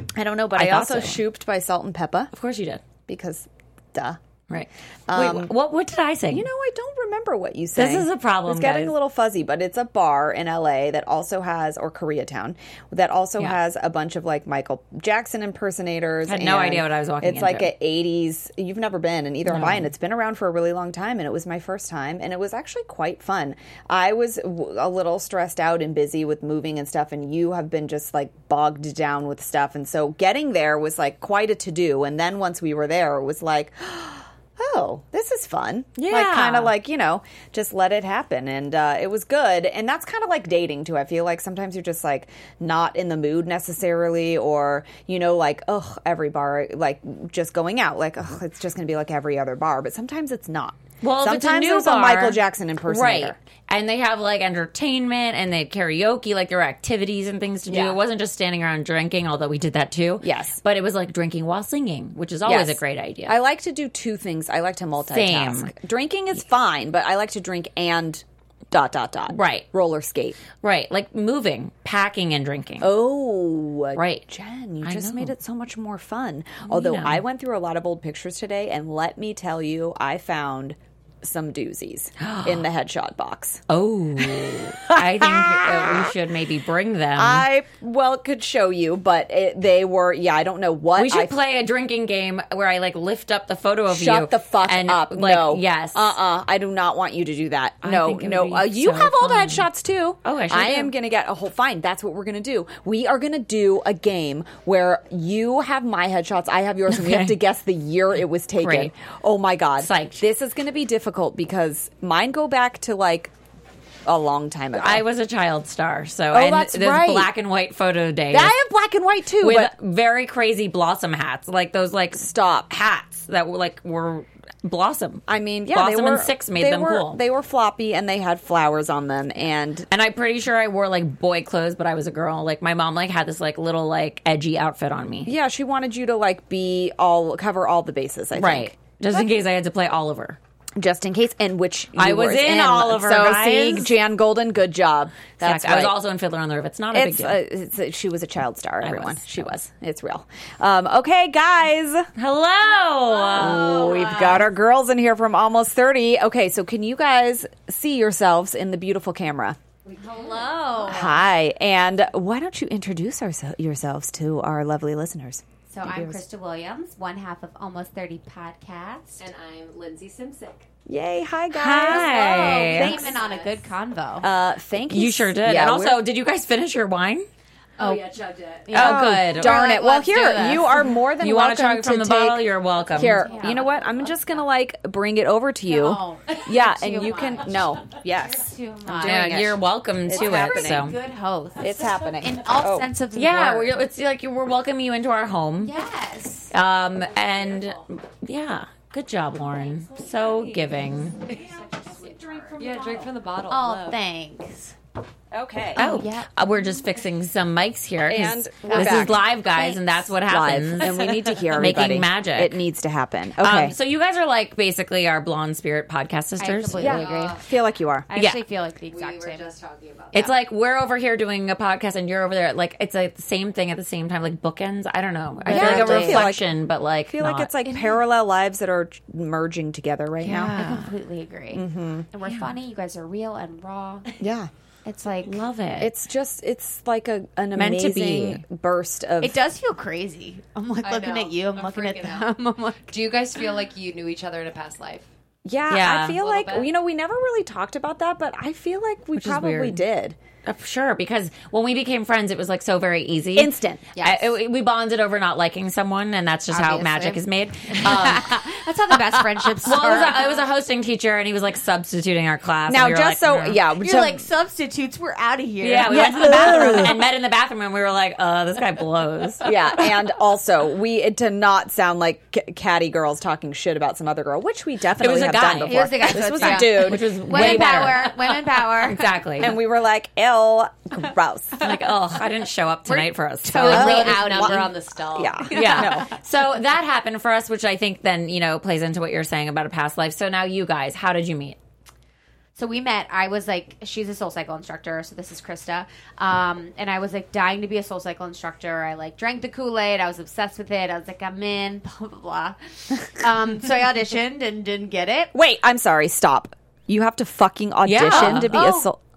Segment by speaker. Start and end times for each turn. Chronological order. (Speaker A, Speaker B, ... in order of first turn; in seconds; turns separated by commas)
Speaker A: 0.1-2.3, Speaker B: 0.5-1.2, Speaker B: 2.3-2.8, Speaker A: 3.1-4.2, Speaker B: 4.5-6.5, Speaker A: 5.1-5.5, Speaker A: 6.3-53.4, Speaker B: 7.7-8.9, Speaker B: 16.2-17.7, Speaker B: 19.4-19.9, Speaker B: 36.0-36.7, Speaker B: 51.0-63.3, Speaker A: 57.7-58.0, Speaker A: 60.2-60.6, Speaker A: 62.4-70.4, Speaker B: 65.0-65.7, Speaker B: 69.3-69.7, Speaker B: 70.6-72.9, Speaker A: 72.8-83.6, Speaker B: 73.9-74.2, Speaker B: 74.8-75.3, Speaker B: 76.7-77.2, Speaker B: 82.2-82.7, Speaker B: 83.7-87.5, Speaker A: 84.2-86.1, Speaker A: 87.2-91.3, Speaker B: 90.9-96.2, Speaker A: 93.9-113.3, Speaker B: 97.8-99.7, Speaker B: 100.2-100.9, Speaker B: 106.9-107.3, Speaker B: 108.6-108.9, Speaker B: 109.8-110.2, Speaker A: 114.0-115.0, Speaker B: 114.8-118.5, Speaker A: 116.3-117.3, Speaker A: 118.3-119.7, Speaker B: 119.4-127.2, Speaker A: 122.2-122.8, Speaker A: 125.3-129.9, Speaker B: 129.9-135.3, Speaker A: 135.2-139.2, Speaker B: 138.3-140.4, Speaker A: 140.8-145.9, Speaker B: 141.9-143.9, Speaker B: 145.4-147.4, Speaker A: 146.9-152.1, Speaker B: 148.8-149.6, Speaker B: 152.2-153.8, Speaker C: 152.9-154.4, Speaker A: 153.3-159.6, Speaker D: 159.8-161.2, Speaker C: 160.0-161.2, Speaker A: 160.8-166.2, Speaker C: 165.7-169.2, Speaker D: 169.2-170.7, Speaker A: 170.9-173.2, Speaker B: 171.5-173.1, Speaker C: 171.9-174.3, Speaker D: 171.9-173.6, Speaker A: 174.2-176.0, Speaker B: 174.9-177.3, Speaker D: 177.8-178.8, Speaker C: 177.8-178.1, Speaker C: 178.6-180.9, Speaker B: 178.7-179.6, Speaker A: 178.7-182.4, Speaker B: 181.2-183.2, Speaker C: 182.9-184.2, Speaker A: 182.9-190.9, Speaker D: 183.2-183.8, Speaker C: 185.7-189.5, Speaker B: 189.0-191.0, Speaker C: 190.1-193.8, Speaker A: 191.6-192.9, Speaker B: 193.1-195.7, Speaker C: 195.6-196.5, Speaker B: 196.5-201.2, Speaker D: 197.1-197.8, Speaker A: 201.3-203.1, Speaker D: 201.3-204.0, Speaker C: 203.5-204.7, Speaker A: 205.3-205.8, Speaker C: 205.8-206.4, Speaker B: 205.8-212.6, Speaker A: 208.1-209.2, Speaker C: 208.6-209.9, Speaker A: 210.2-213.7, Speaker B: 213.4-217.0, Speaker C: 216.4-217.4, Speaker D: 216.8-217.5, Speaker A: 216.8-218.1, Speaker C: 218.1-219.5, Speaker B: 218.1-218.4, Speaker D: 218.9-220.3, Speaker B: 220.1-227.5, Speaker C: 225.4-226.3, Speaker A: 225.5-226.5, Speaker A: 227.1-230.6, Speaker B: 230.2-230.9, Speaker C: 230.5-234.1, Speaker A: 231.5-232.1, Speaker B: 232.2-232.5, Speaker A: 234.2-234.5, Speaker C: 234.8-235.4, Speaker B: 235.2-235.9, Speaker A: 235.8-239.4, Speaker B: 237.5-238.4, Speaker C: 239.2-242.9, Speaker D: 240.8-242.3, Speaker D: 242.9-245.1, Speaker A: 245.4-250.2, Speaker B: 245.7-246.2, Speaker D: 246.1-246.7, Speaker B: 249.1-249.8, Speaker B: 250.4-258.5, Speaker A: 253.3-253.9, Speaker C: 253.9-254.2, Speaker C: 256.5-260.4, Speaker B: 259.6-263.6, Speaker A: 262.7-264.2, Speaker C: 263.8-267.0, Speaker B: 265.6-269.5, Speaker A: 265.9-266.9, Speaker A: 269.4-277.9, Speaker B: 275.0-279.6, Speaker C: 275.6-279.1, Speaker A: 279.4-281.8, Speaker B: 281.6-284.2, Speaker C: 282.9-284.8, Speaker A: 283.6-286.1, Speaker D: 283.6-285.7, Speaker C: 285.5-286.1, Speaker B: 285.5-291.6, Speaker C: 292.6-305.3, Speaker A: 305.3-309.0, Speaker B: 307.8-308.6, Speaker C: 308.0-308.9